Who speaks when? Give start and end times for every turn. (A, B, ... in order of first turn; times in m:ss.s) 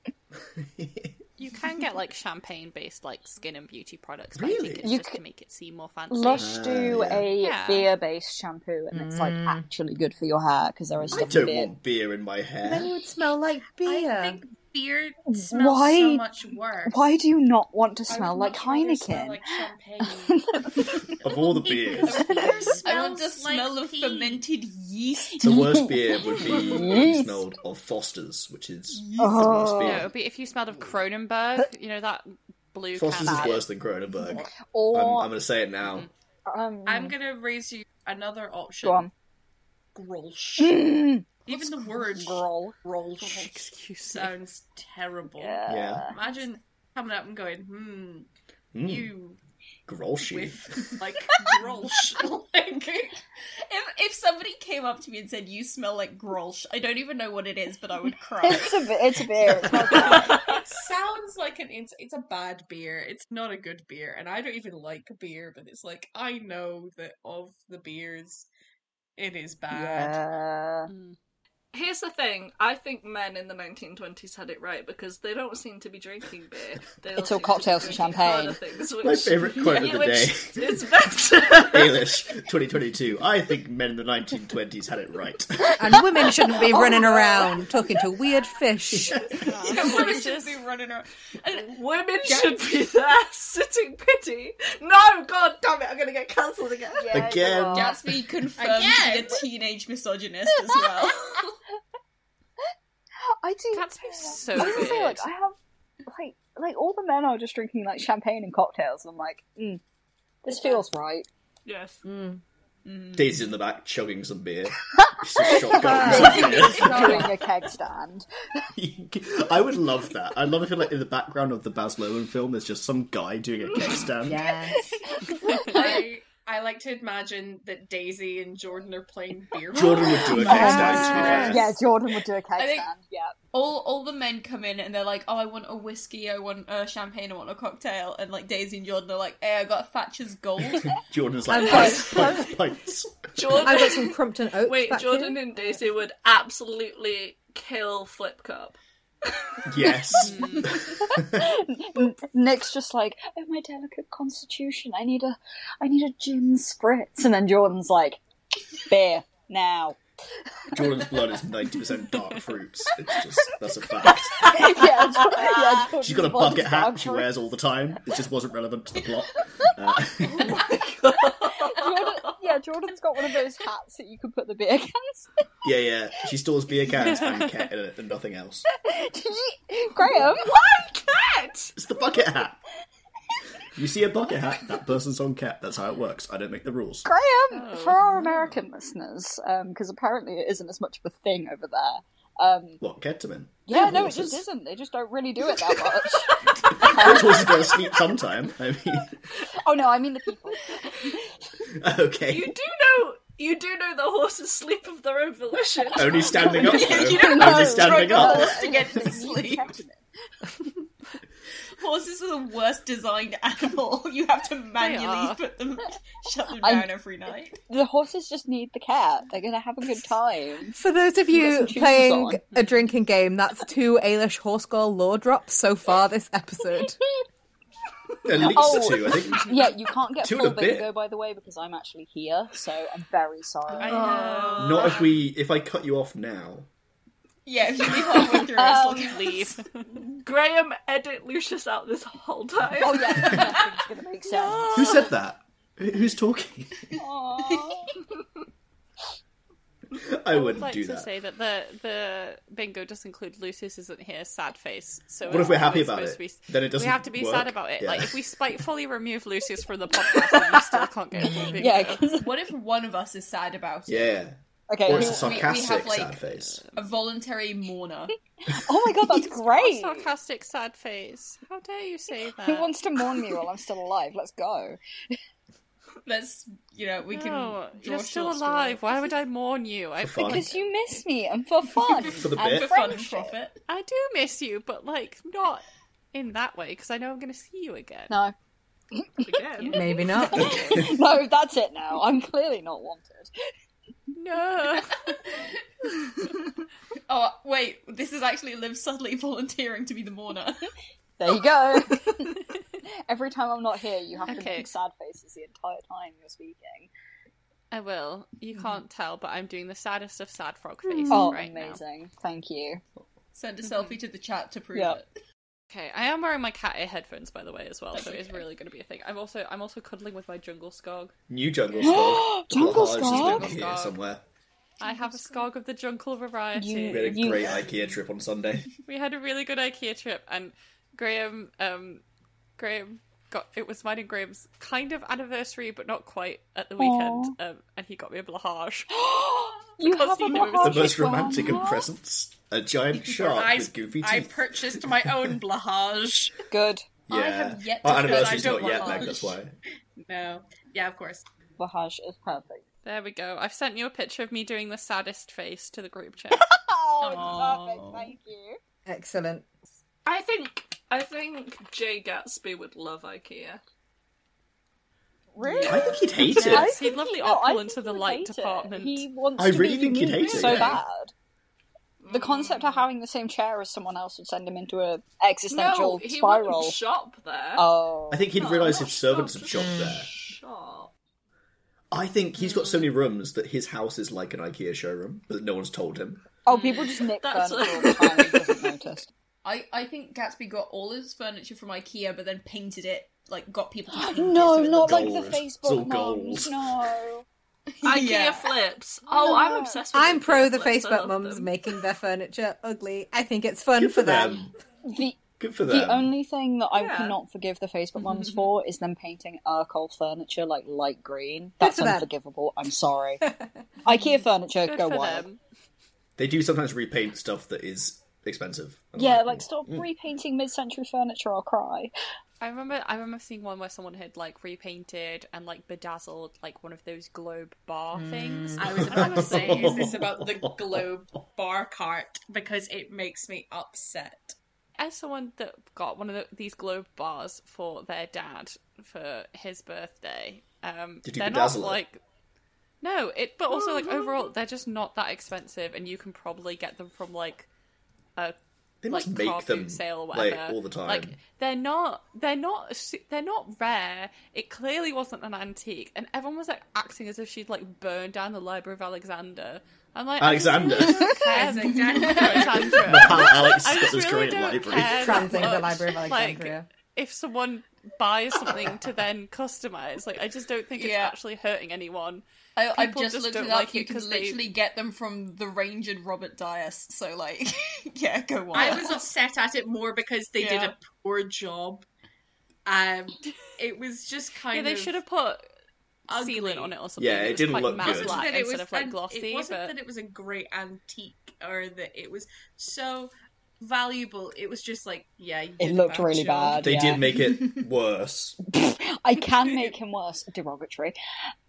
0:00.6-0:01.1 A
0:01.4-0:06.6 B
0:04.4-0:04.9 A
0:04.8-0:05.2 C
0:06.1-0:11.7 C
0:06.4-0:07.3 A
0:07.4-0:07.9 B
0:08.9-0:09.6 D
0:11.0-0:12.9 A
0:12.6-0:14.4 D
0:13.8-0:17.1 E
0:15.4-0:16.2 C
0:16.9-0:19.5 C
0:18.1-0:20.7 E
0:20.1-0:21.0 C
0:21.2-0:22.3 A
0:21.5-0:24.4 E
0:22.0-0:22.8 C
0:22.1-0:25.5 F
0:25.4-0:27.5 C
0:25.4-0:30.1 A
0:29.0-0:29.2 F
0:29.2-0:30.1 C
0:29.8-0:33.7 B
0:32.9-0:36.1 A
0:33.2-0:33.6 C
0:34.2-0:35.3 C
0:36.5-0:37.2 C
0:36.8-0:39.1 E
0:38.8-0:39.1 C
0:39.9-0:40.9 E
0:40.6-0:42.8 C
0:41.4-0:49.4 E
0:43.2-0:44.4 B
0:45.4-0:46.1 C
0:45.7-0:46.1 A
0:48.7-0:49.1 A
0:49.9-0:51.0 A
0:50.2-0:53.0 E
0:53.6-0:59.0 F
0:58.4-1:00.4 C
0:59.7-1:00.3 F
0:59.8-1:08.5 E
1:00.1-1:00.6 G
1:09.2-1:10.2 E
1:09.7-1:10.9 C
1:10.9-1:11.2 B
1:11.7-1:22.1 G
1:17.2-1:18.6 C
1:19.0-1:26.0 A
1:25.8-1:29.4 D
1:26.2-1:27.7 C
1:28.9-1:29.4 A
1:29.4-1:30.6 B
1:29.5-1:32.7 F
1:29.8-1:30.1 G
1:31.6-1:37.3 G
1:37.0-1:38.0 C
1:37.1-1:38.0 A
1:37.7-1:41.4 F
1:38.6-1:39.4 E
1:43.3-1:49.8 C
1:43.7-1:45.3 B
1:50.4-1:51.3 C
1:51.6-1:52.0 G
1:52.0-1:52.4 D
1:52.9-1:53.2 F
1:53.1-1:57.3 A
1:55.0-1:58.3 C
1:55.7-1:57.3 D
1:56.2-1:57.2 F
1:58.8-2:04.5 A
2:04.2-2:04.8 D
2:04.7-2:06.0 C
2:05.6-2:11.7 E
2:09.7-2:11.7 A
2:10.3-2:13.4 C
2:10.9-2:11.4 F
2:12.6-2:12.9 F
2:13.5-2:21.0 F
2:20.8-2:23.7 A
2:21.5-2:22.6 D
2:21.7-2:22.2 G
2:23.4-2:28.8 G
2:23.6-2:25.5 D
2:29.6-2:31.5 A
2:30.2-2:30.7 B
2:31.0-2:38.2 C
2:38.8-2:40.0 C
2:40.7-2:44.8 A
2:44.4-2:47.3 C
2:46.0-2:50.6 A
2:50.3-2:52.4 G
2:51.6-2:55.3 C
2:55.6-2:58.7 A
2:57.0-2:57.7 B
2:58.8-3:00.5 C
3:00.1-3:01.7 G
3:01.8-3:02.6 A
3:03.7-3:07.1 A
3:07.0-3:12.8 C
3:07.5-3:08.6 B
3:12.8-3:14.4 A
3:13.7-3:17.7 C
3:16.6-3:19.2 A
3:19.5-3:21.3 C
3:21.8-3:22.5 A
3:22.3-3:27.0 G
3:26.0-3:28.6 A
3:26.5-3:29.8 F
3:26.6-3:30.1 C
3:31.8-3:37.6 F
3:34.8-3:35.4 B
3:36.6-3:36.9 C
3:37.7-3:40.8 C
3:40.8-3:47.0 D
3:41.3-3:42.4 C
3:48.2-3:49.6 A
3:48.4-3:54.2 C
3:49.3-3:49.6 B
3:50.2-3:50.9 A
3:53.7-3:55.1 B
3:53.8-3:55.1 G
3:54.6-3:56.7 A
3:57.5-3:59.6 F
3:58.3-3:59.3 C
3:58.7-3:59.7 B
4:00.2-4:03.6 G
4:02.8-4:05.0 C
4:04.4-4:04.8 G
4:04.7-4:06.9 A
4:07.0-4:08.0 C
4:09.9-4:11.1 A
4:10.3-4:22.1 B
4:15.3-4:18.2 A
4:21.2-4:22.4 C
4:21.3-4:21.5 D
4:22.1-4:24.1 F
4:23.9-4:26.6 A
4:24.7-4:25.5 C
4:24.9-4:28.1 F
4:28.5-4:30.1 C
4:29.4-4:32.7 B
4:32.4-4:34.8 C
4:36.0-4:39.1 F
4:37.1-4:40.7 B
4:40.0-4:40.5 A
4:40.2-4:43.4 C
4:42.0-4:42.7 A
4:42.2-4:43.6 F
4:43.7-4:48.1 B
4:48.9-4:49.4 C
4:49.2-4:50.9 G
4:49.6-4:50.5 F
4:49.7-4:50.6 D
4:50.3-4:53.3 C
4:54.2-4:55.2 B
4:57.1-5:00.7 F
5:01.2-5:02.3 C
5:03.1-5:06.9 C
5:04.2-5:04.7 B
5:07.7-5:11.8 B
5:11.1-5:12.8 C
5:13.3-5:15.0 F
5:13.6-5:14.0 B
5:15.7-5:21.1 B
5:17.9-5:18.4 F
5:21.3-5:24.2 A
5:21.8-5:23.5 C
5:23.0-5:24.0 B
5:24.8-5:27.4 B
5:26.6-5:27.6 C
5:26.9-5:28.7 A
5:28.9-5:32.0 B
5:32.6-5:38.9 B
5:36.8-5:37.4 C
5:38.9-5:41.9 C
5:39.8-5:41.0 B
5:40.6-5:45.3 A
5:42.9-5:46.4 E
5:46.5-5:46.9 C
5:47.1-5:49.6 A
5:47.1-5:49.4 F
5:47.8-5:49.3 E
5:50.0-5:51.2 E
5:51.6-5:52.6 C
5:52.8-5:56.4 B
5:56.3-5:58.6 C
5:57.0-5:58.1 E
5:57.1-5:57.6 F
5:58.9-5:59.5 D
6:00.0-6:03.6 G
6:05.4-6:11.1 C
6:05.6-6:06.4 F
6:05.6-6:06.8 A
6:06.3-6:09.1 B
6:09.4-6:10.8 A
6:10.2-6:10.7 G
6:12.0-6:12.8 G
6:12.1-6:16.8 C
6:15.5-6:17.7 G
6:17.6-6:18.4 C
6:18.1-6:20.1 A
6:18.3-6:20.9 G
6:19.6-6:20.0 D
6:21.9-6:26.3 A
6:22.5-6:22.9 B
6:26.5-6:29.1 C
6:26.5-6:26.9 B
6:26.6-6:28.7 G
6:29.4-6:35.2 F
6:33.9-6:37.3 C
6:34.7-6:36.9 A
6:37.8-6:38.5 F
6:37.8-6:41.7 G
6:39.1-6:39.8 C
6:39.9-6:44.4 D
6:43.8-6:44.5 A
6:44.8-6:53.2 C
6:45.4-6:46.1 A
6:46.8-6:47.2 G
6:51.6-6:52.1 D
6:53.2-6:53.5 D
6:53.8-6:55.3 C
6:54.6-6:55.4 B
6:56.2-6:59.9 A
6:59.0-7:01.9 C
7:02.4-7:09.7 B
7:07.9-7:08.8 D
7:08.6-7:14.4 E
7:08.8-7:10.9 A
7:14.8-7:22.0 B
7:21.0-7:21.8 A
7:22.8-7:27.5 B
7:28.8-7:31.2 A
7:28.9-7:54.5 B
7:40.2-7:41.1 A
7:41.4-7:42.6 E
7:41.4-7:42.9 F
7:42.7-7:45.2 A
7:44.9-7:46.7 D
7:50.8-7:51.2 F
7:52.6-7:59.1 F
7:58.5-8:01.8 E
8:00.4-8:00.7 F
8:02.7-8:05.0 E
8:04.5-8:05.4 B
8:06.1-8:06.8 E
8:06.1-8:09.8 B
8:07.0-8:08.2 A
8:07.8-8:16.8 E
8:15.6-8:17.1 C
8:16.6-8:18.4 A
8:18.5-8:21.0 C